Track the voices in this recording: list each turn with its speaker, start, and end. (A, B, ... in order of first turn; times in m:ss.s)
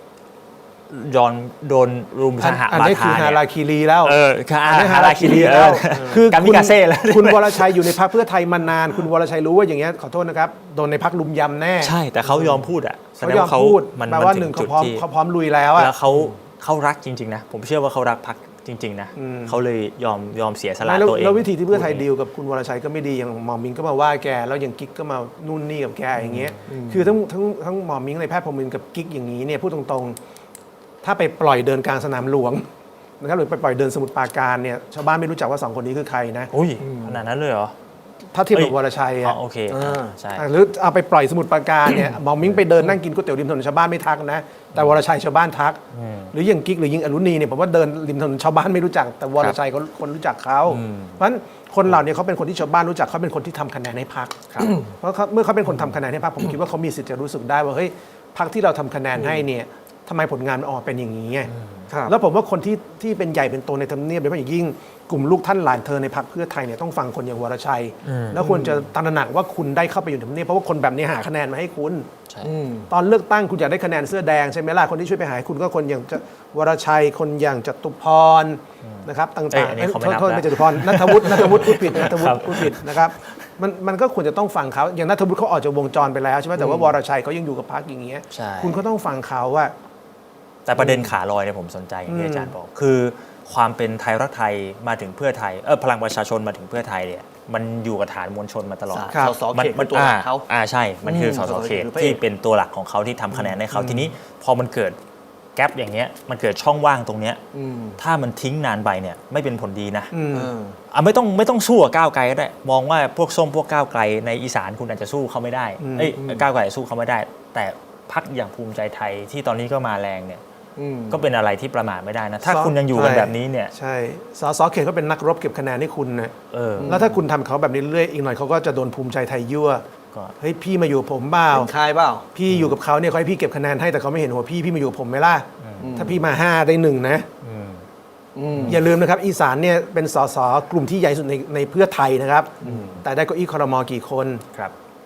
0:00.9-0:03.4 A
0:02.4-0:12.6 B
0:04.0-0:08.0 A
0:05.9-0:06.2 C
0:11.8-0:15.0 A
0:13.2-0:15.9 B
0:15.8-0:22.0 A
0:19.2-0:19.6 B
0:20.8-0:30.2 B
0:26.2-0:26.6 A
0:26.7-0:27.1 C
0:31.0-0:32.7 B
0:33.2-0:36.5 B
0:36.5-0:37.8 A
0:36.8-0:37.2 C
0:38.3-0:39.4 B
0:38.5-0:40.5 A
0:39.7-0:40.2 C
0:40.4-0:45.8 B
0:45.9-0:46.3 A
0:46.3-1:01.5 B
0:50.7-0:51.2 A
0:54.5-0:54.8 A
0:54.6-0:54.9 C
1:01.5-1:01.9 A
1:02.1-1:12.1 B
1:08.0-1:08.5 A
1:08.4-1:08.8 C
1:12.4-1:12.9 C
1:12.9-1:29.7 B
1:18.8-1:23.4 A
1:26.6-1:26.9 C
1:28.3-1:28.8 A
1:30.7-1:45.0 A
1:32.1-1:32.5 B
1:38.9-1:40.5 C
1:41.0-1:42.2 C
1:43.7-1:44.1 B
1:45.6-1:47.4 A
1:47.5-1:48.0 C
1:48.0-1:50.1 A
1:50.1-1:50.5 B
1:50.3-1:50.8 C
1:50.9-2:00.4 A
1:55.8-1:56.2 B
1:56.2-1:56.4 C
2:00.8-2:01.2 C
2:01.1-2:03.7 A
2:02.4-2:09.8 B
2:06.5-2:07.0 A
2:06.8-2:07.1 C
2:10.4-2:11.7 B
2:11.5-2:12.3 C
2:12.4-2:17.3 B
2:15.6-2:16.0 A
2:15.8-2:16.2 C
2:17.4-2:17.9 A
2:18.4-2:18.8 C
2:18.6-2:24.4 B
2:22.6-2:23.0 A